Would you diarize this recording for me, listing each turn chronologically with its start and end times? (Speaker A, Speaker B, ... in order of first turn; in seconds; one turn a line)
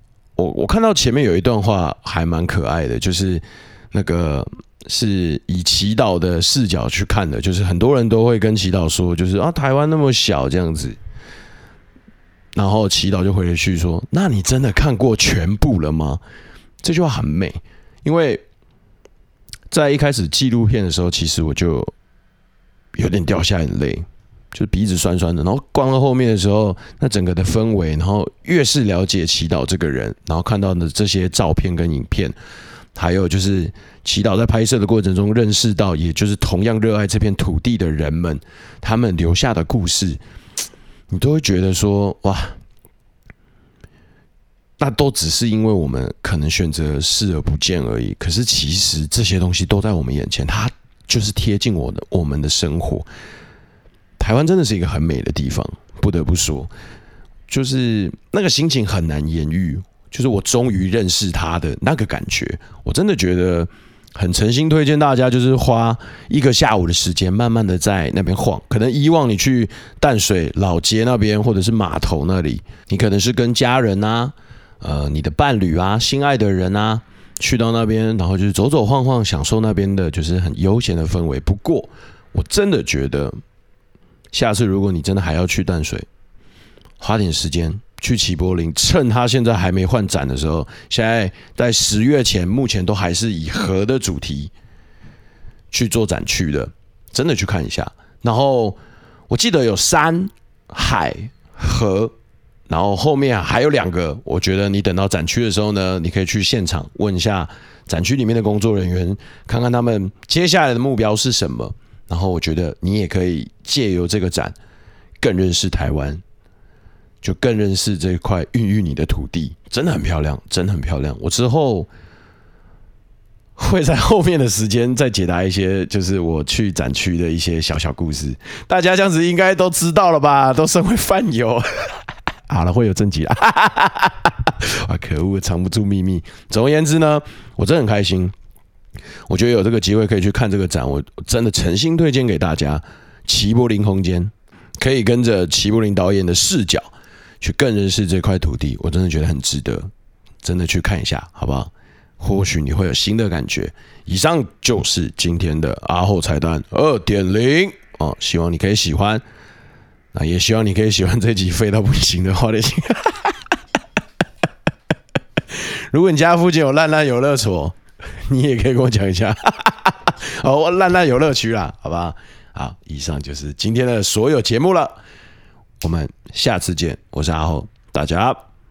Speaker A: 0.4-11.0
Speaker A: 12.6-16.2
Speaker A: 16.8-18.4
Speaker A: 19.7-21.9
Speaker A: 22.9-32.4
Speaker A: 33.0-40.2
Speaker A: 41.1-42.6
Speaker A: 44.8-53.1
Speaker A: 54.2-56.7
Speaker A: 57.5-83.3
Speaker A: 84.3-86.1
Speaker A: 87.0-94.5
Speaker A: 95.7-98.8
Speaker A: 99.3-102.1
Speaker A: 102.7-114.5
Speaker A: 115.2-116.2
Speaker A: 117.2-121.9
Speaker A: 123.6-138.3
Speaker A: 139.3-146.9
Speaker A: 147.4-149.9
Speaker A: 150.4-159.2
Speaker A: 160.1-163.5
Speaker A: 165.5-175.0
Speaker A: 175.8-178.4